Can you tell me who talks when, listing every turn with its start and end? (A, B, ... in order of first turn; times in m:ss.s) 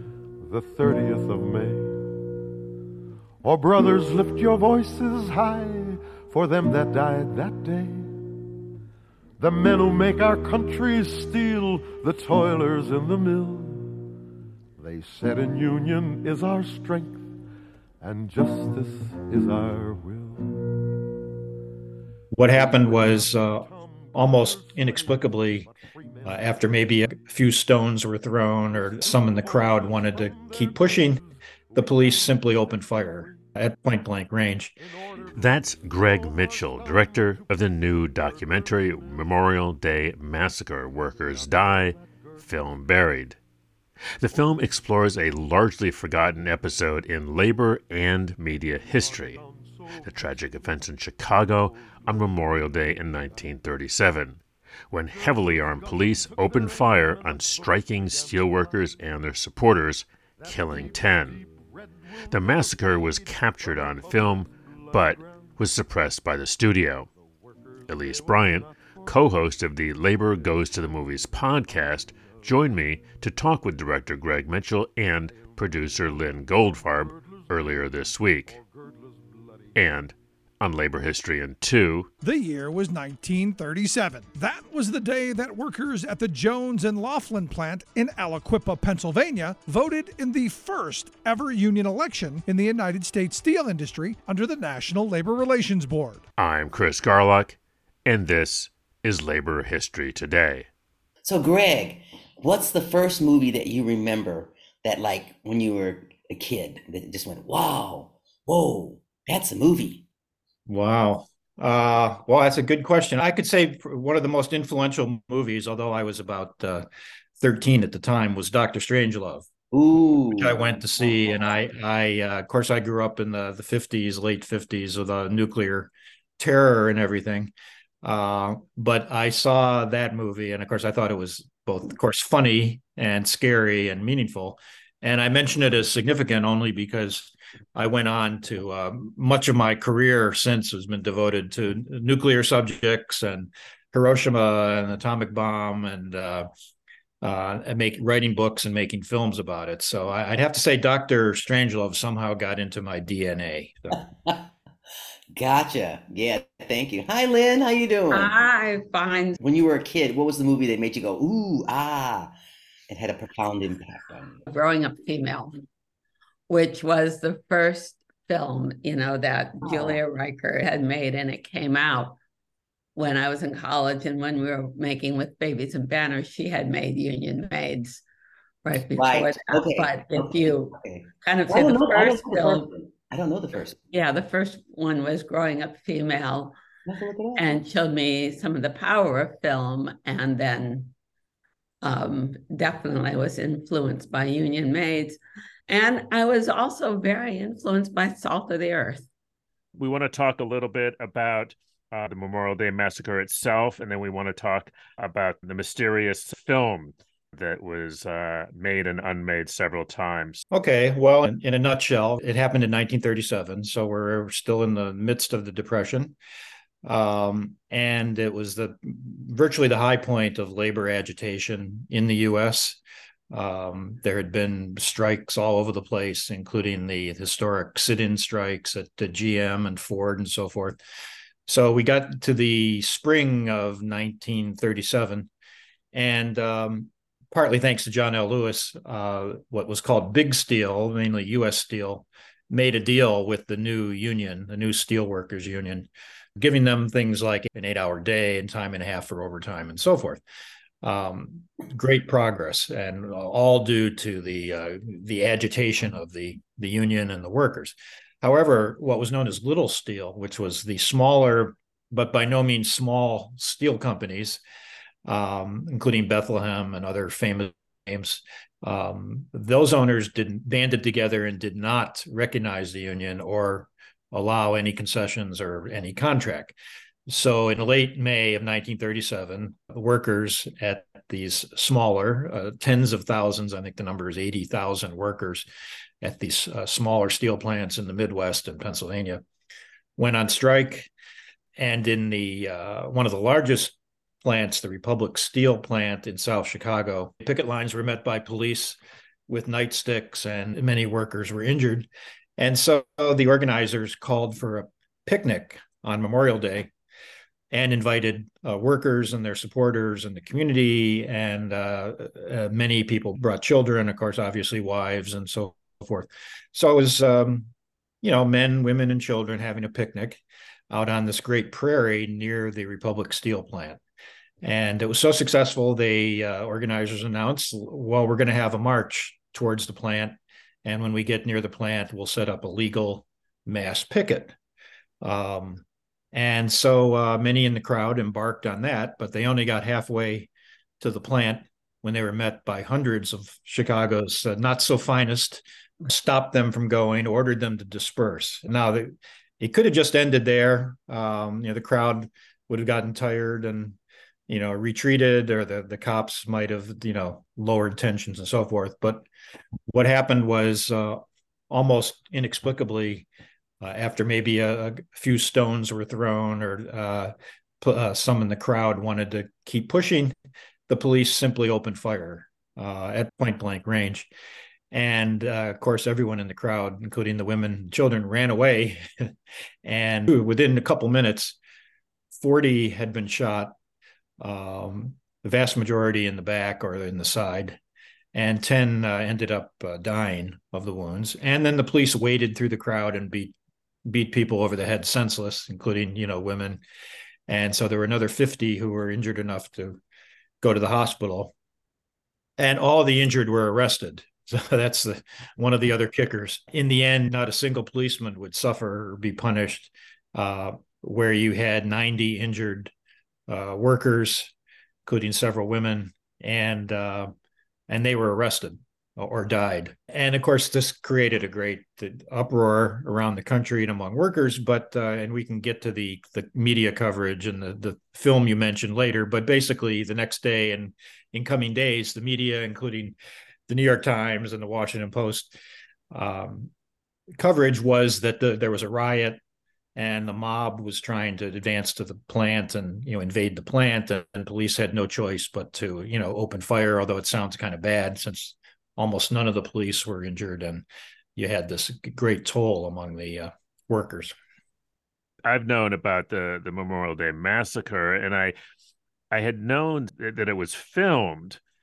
0:00.4-0:02.1 A
0:03.4-0:08.2 A
0:09.4-0:14.1 A
0:14.8-0:17.3 A
0:18.0-0:20.9 A
0:22.3-0:25.7 B
0:22.5-0:26.8 A
0:26.2-0:31.2 B
0:28.8-0:33.5 A
0:31.8-0:34.8 B
0:34.8-0:39.6 A
0:35.4-0:43.4 C
0:40.8-0:42.8 A
0:44.2-0:49.4 C
0:48.8-0:53.7 A
0:50.0-1:01.4 C
0:55.0-0:59.0 A
1:00.4-1:05.9 A
1:02.3-1:07.1 C
1:07.1-1:09.5 A
1:07.9-1:18.6 C
1:10.4-1:10.8 A
1:12.1-1:12.7 A
1:15.3-1:19.8 A
1:19.8-1:22.1 C
1:22.2-1:36.2 D
1:36.4-1:40.7 C
1:41.2-1:50.0 E
1:50.7-1:56.9 B
1:57.4-1:59.5 B
1:59.7-2:00.8 E
2:00.4-2:26.5 B
2:27.2-2:34.0 B
2:34.0-2:34.5 E
2:35.4-2:38.3 E
2:38.1-2:39.4 F
2:39.4-2:42.3 E
2:42.9-2:44.4 E
2:44.5-2:45.5 F
2:46.5-2:52.2 F
2:49.6-2:50.0 E
2:53.0-2:58.0 F
2:58.6-3:02.7 F
2:59.0-3:03.8 E
3:03.9-3:06.6 F
3:06.9-3:07.5 E
3:07.4-3:10.9 F
3:11.8-3:19.1 F
3:19.8-3:30.4 C
3:30.5-3:36.2 B
3:36.8-3:42.8 B
3:43.3-3:50.8 B
3:51.5-3:55.3 B
3:55.9-4:10.2 B
4:10.8-4:24.4 B
4:25.0-4:36.6 B
4:37.1-4:45.5 B
4:46.0-4:49.2 B
4:50.0-4:50.9 B
4:51.6-5:06.7 B
5:07.5-5:17.5 B
5:18.0-5:23.8 B
5:24.4-5:34.4 B
5:35.0-5:53.8 B
5:54.3-5:59.1 B
5:59.7-6:03.1 B
6:03.6-6:10.2 B
6:10.7-6:14.1 B
6:14.7-6:21.4 B
6:22.1-6:23.5 B
6:24.2-6:27.6 B
6:28.1-6:33.3 B
6:33.8-6:36.6 B
6:37.3-6:39.8 B
6:40.4-6:41.3 B
6:42.4-6:52.7 B
6:53.3-6:54.3 B
6:54.9-6:57.1 B
6:57.7-7:13.0 B
7:13.5-7:15.3 B
7:15.9-7:16.5 B
7:17.2-7:19.2 B
7:19.8-7:34.2 B
7:35.2-7:38.4 C
7:39.1-7:41.4 C